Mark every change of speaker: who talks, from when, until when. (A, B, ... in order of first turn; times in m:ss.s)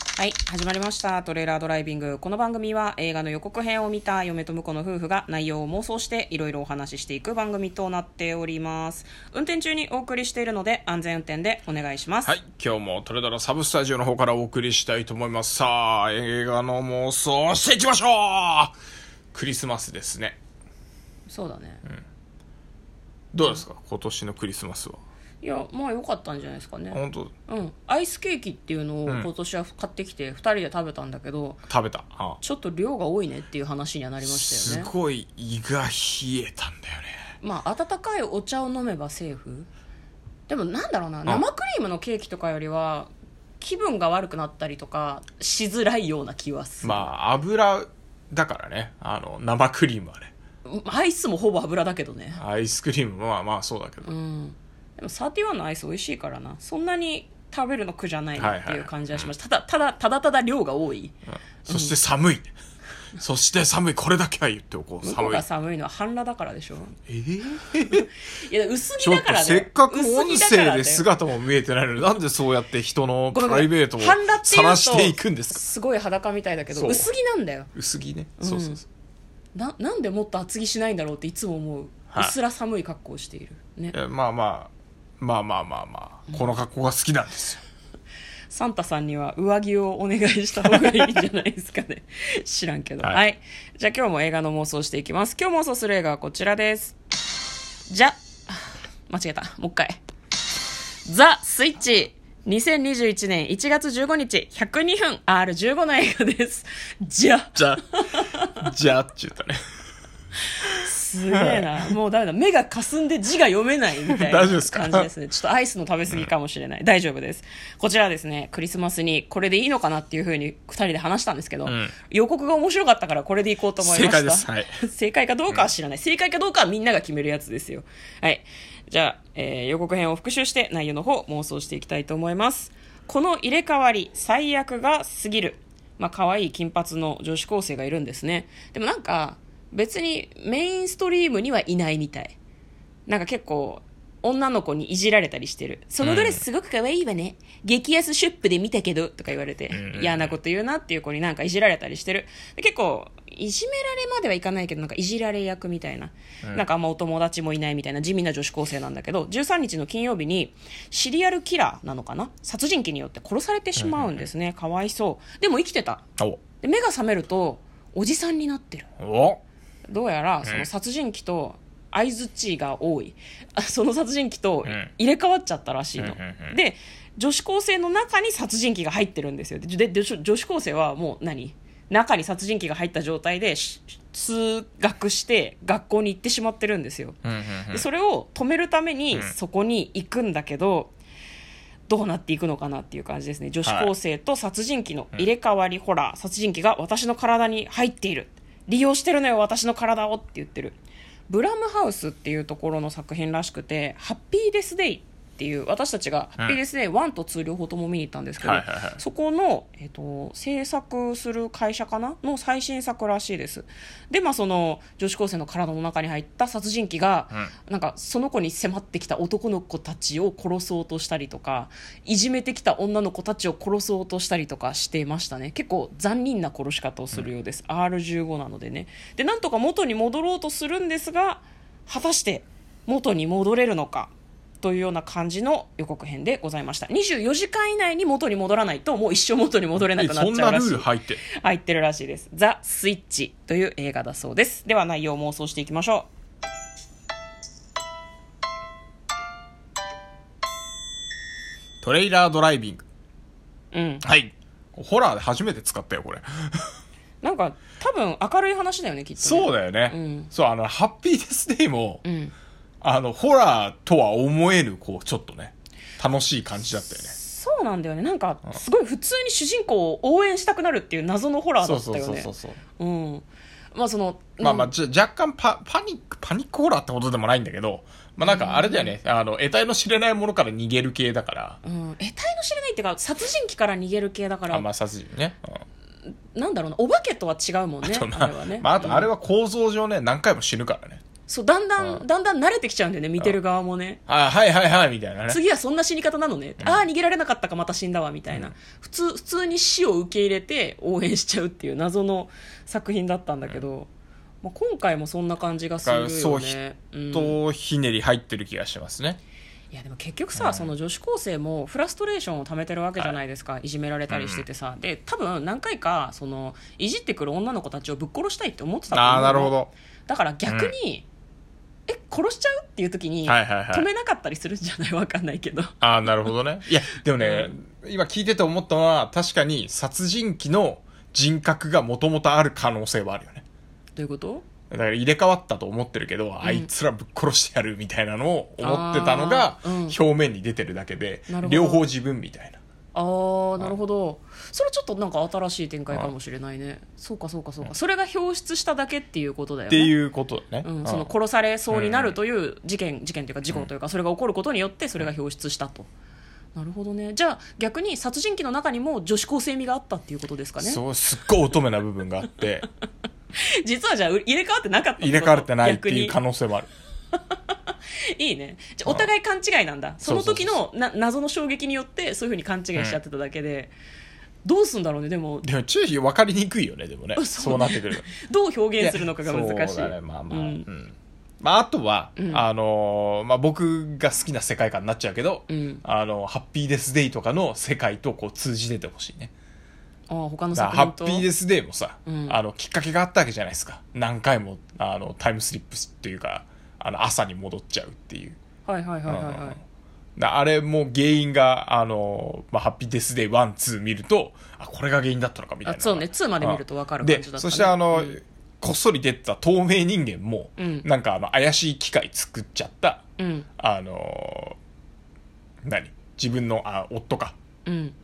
0:00.1-0:12.3 A
0:12.2-0:18.7 B
0:19.3-0:20.4 B
0:21.3-0:21.8 A
0:23.3-0:25.0 B
0:25.4-0:31.6 A
0:26.9-0:27.3 B
0:31.7-0:32.4 B
0:32.4-0:34.9 A
0:34.2-0:37.2 B
0:37.4-0:39.7 A
0:40.5-0:47.1 A
0:46.8-0:50.3 B
0:50.6-0:52.4 A
0:52.3-0:54.1 B
0:54.0-1:01.1 A
0:58.4-0:59.3 B
1:01.3-1:02.5 B
1:01.7-1:01.9 A
1:03.2-1:05.4 B
1:05.0-1:07.0 A
1:07.1-1:08.1 B
1:07.9-1:11.0 A
1:09.0-1:15.6 B
1:13.3-1:17.7 A
1:16.7-1:17.1 B
1:17.7-1:18.8 B
1:18.4-1:18.8 A
1:19.5-1:24.0 A
1:23.9-1:27.6 B
1:28.5-1:37.0 A
1:37.9-1:40.0 A
1:41.0-1:48.6 A
1:47.6-1:47.8 B
1:48.5-1:49.6 B
1:50.6-2:22.4 A
1:51.3-1:51.9 B
1:54.1-1:55.1 B
2:01.6-2:01.9 B
2:03.8-2:04.8 B
2:23.1-2:46.0 A
2:26.0-2:26.4 B
2:29.7-2:30.4 B
2:43.8-2:44.2 B
2:46.6-2:48.9 A
2:49.0-2:49.4 B
2:49.9-3:07.2 A
2:54.6-2:54.9 B
2:56.0-2:56.6 B
3:07.2-3:07.8 B
3:07.7-3:10.9 A
3:11.9-3:20.8 A
3:13.6-3:13.9 B
3:21.3-4:06.1 A
3:28.4-3:29.0 B
3:59.8-4:01.2 B
4:11.8-4:12.8 B
4:13.7-4:14.0 A
4:14.0-4:16.7 B
4:17.2-4:20.3 A
4:19.2-4:22.0 B
4:22.0-4:22.3 A
4:22.8-4:27.1 B
4:27.0-4:34.7 A
4:31.6-4:32.6 B
4:34.4-4:41.6 B
4:38.2-4:38.9 A
4:41.6-4:44.6 A
4:44.5-4:45.6 B
4:46.3-4:49.1 A
4:47.8-4:51.0 B
4:51.3-4:54.0 A
4:51.8-4:52.0 B
4:54.1-4:55.4 B
4:55.3-5:03.9 A
5:04.4-5:07.4 A
5:05.8-5:06.6 B
5:07.1-5:09.2 B
5:09.7-5:19.6 A
5:10.3-5:10.7 B
5:14.1-5:14.4 B
5:18.9-5:19.7 B
5:20.1-5:21.0 A
5:20.5-5:20.7 B
5:21.9-5:25.8 A
5:23.2-5:23.9 B
5:25.8-5:33.4 B
5:27.2-5:27.5 A
5:34.0-5:34.4 A
5:34.7-5:42.6 B
5:36.4-5:36.7 A
5:38.6-5:40.0 A
5:41.3-5:41.8 A
5:42.9-5:49.9 A
5:49.7-5:51.1 B
5:50.6-5:55.9 A
5:51.7-5:52.2 B
5:56.5-6:00.8 A
6:00.6-6:02.6 B
6:03.4-6:06.2 A
6:05.0-6:06.7 B
6:07.3-6:13.7 A
6:10.0-6:10.6 B
6:14.4-6:15.4 A
6:15.4-6:18.1 B
6:17.2-6:20.6 A
6:18.8-6:29.3 B
6:22.2-6:22.4 A
6:25.5-6:25.8 A
6:30.1-6:31.3 A
6:30.5-6:38.4 B
6:32.0-6:32.4 A
6:38.6-6:39.6 A
6:39.1-6:39.6 B
6:40.2-6:53.0 B
6:45.6-6:48.2 A
6:50.6-6:50.9 A
6:53.2-6:53.5 A
6:53.6-6:54.6 B
6:55.6-6:57.4 B
6:57.6-6:57.9 A